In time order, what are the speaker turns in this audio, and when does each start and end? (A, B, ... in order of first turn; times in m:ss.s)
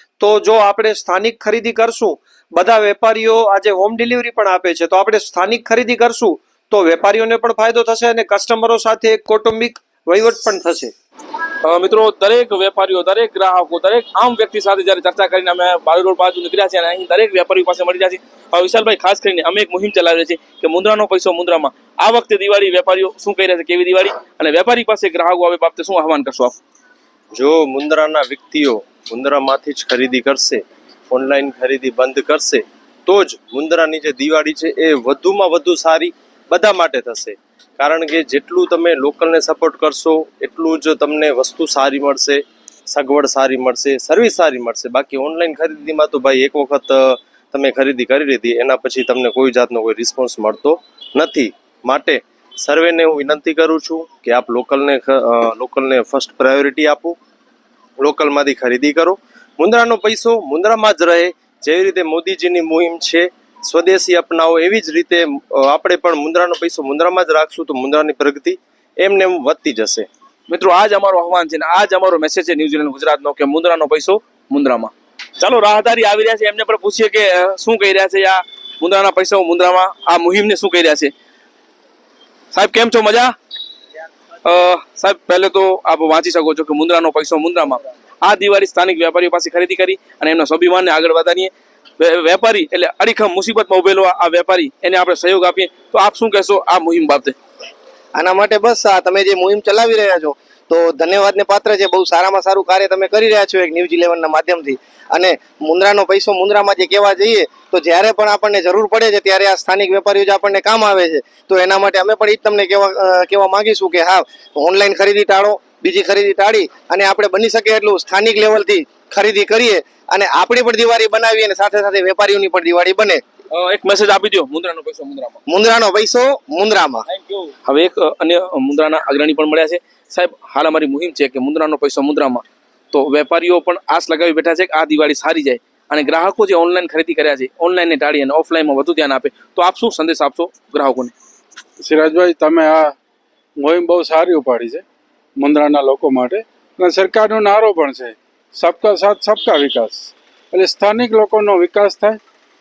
0:00.3-0:02.1 A
0:02.6-0:10.6 A
0:11.6-0:26.6 B
0:27.3-0:57.2 C
0:58.0-1:10.1 C
1:10.5-1:21.1 B
1:22.5-1:23.3 B
1:24.4-1:37.4 B
1:38.2-2:03.2 D
2:03.5-2:05.4 B
2:05.5-2:07.1 D
2:07.1-2:21.1 B
2:21.8-2:23.0 E
2:23.6-2:24.8 E
2:25.4-2:32.2 E